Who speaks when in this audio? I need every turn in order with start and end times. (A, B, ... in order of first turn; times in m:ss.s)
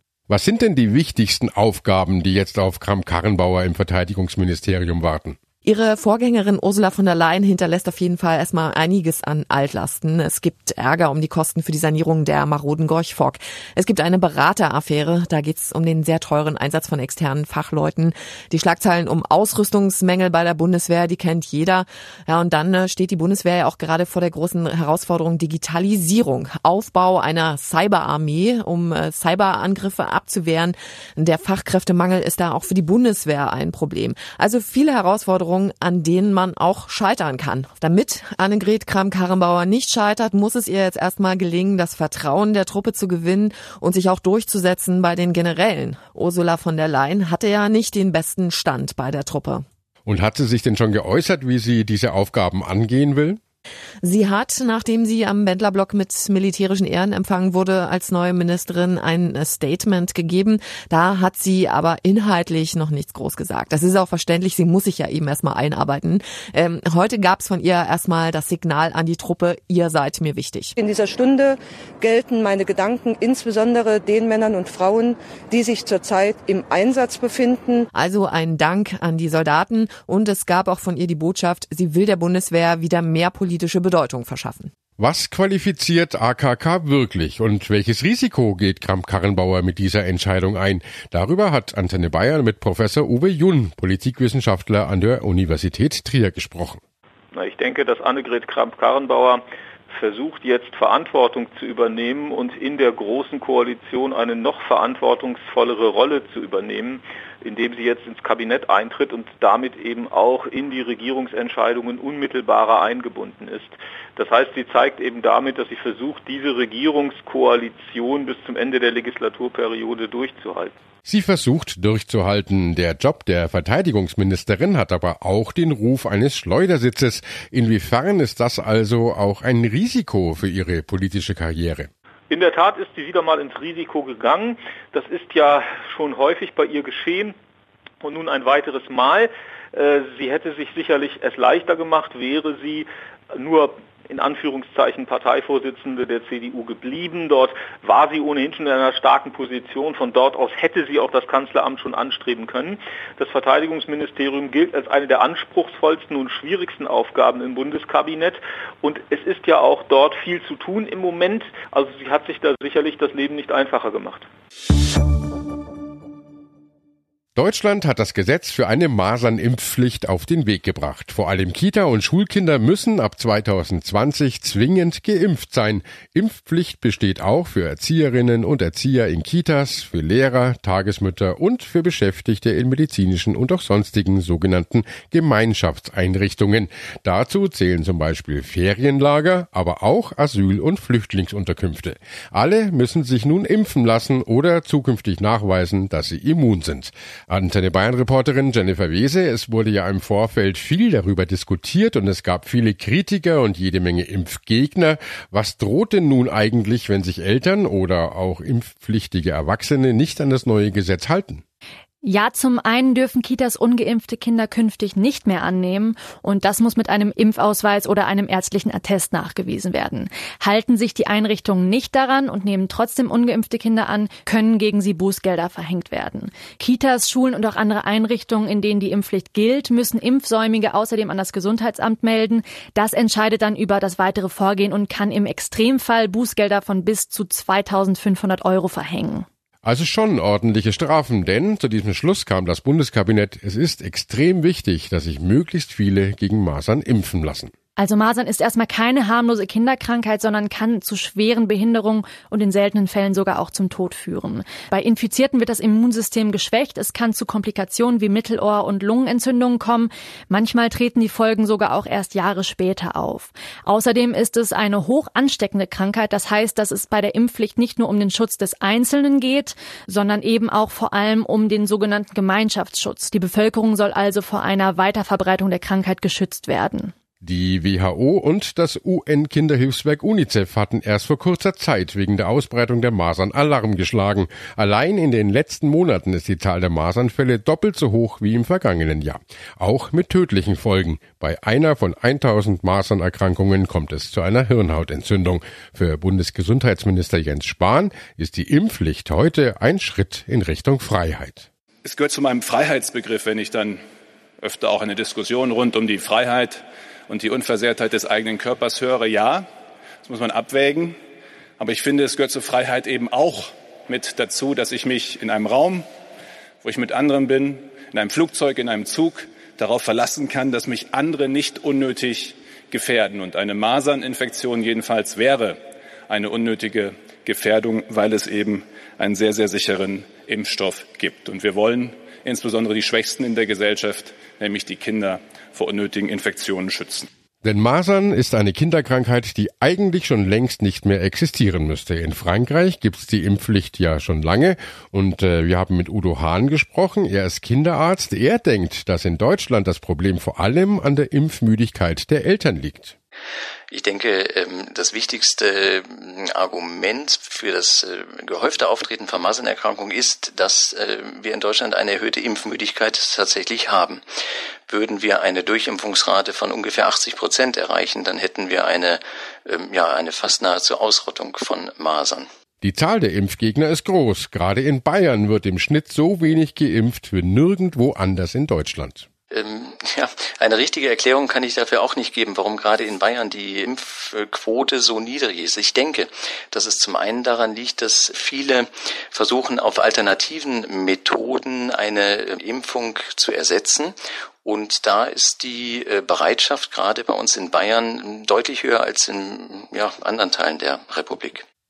0:00.3-0:05.4 A
0:05.6-0:49.6 B
0:50.0-0:53.4 A
0:54.0-1:10.7 B
1:10.8-1:17.8 C
1:18.0-1:24.7 B
1:25.0-1:36.8 A
1:37.3-2:00.7 D
2:01.0-2:11.9 A
2:12.3-2:17.3 D
2:18.0-2:44.2 D
2:47.4-3:31.4 A
3:32.0-3:59.2 E
3:59.6-4:07.5 A
4:07.8-4:36.9 E
4:37.2-5:01.5 A
5:01.8-5:03.8 F
5:04.4-5:09.4 F
5:10.0-5:11.0 F
5:11.6-5:15.8 F
5:16.6-5:25.6 F
5:26.1-5:37.1 F
5:37.4-5:52.9 A
5:53.7-6:04.0 G
6:04.7-6:12.3 G
6:12.6-6:19.1 A
6:19.3-6:41.4 G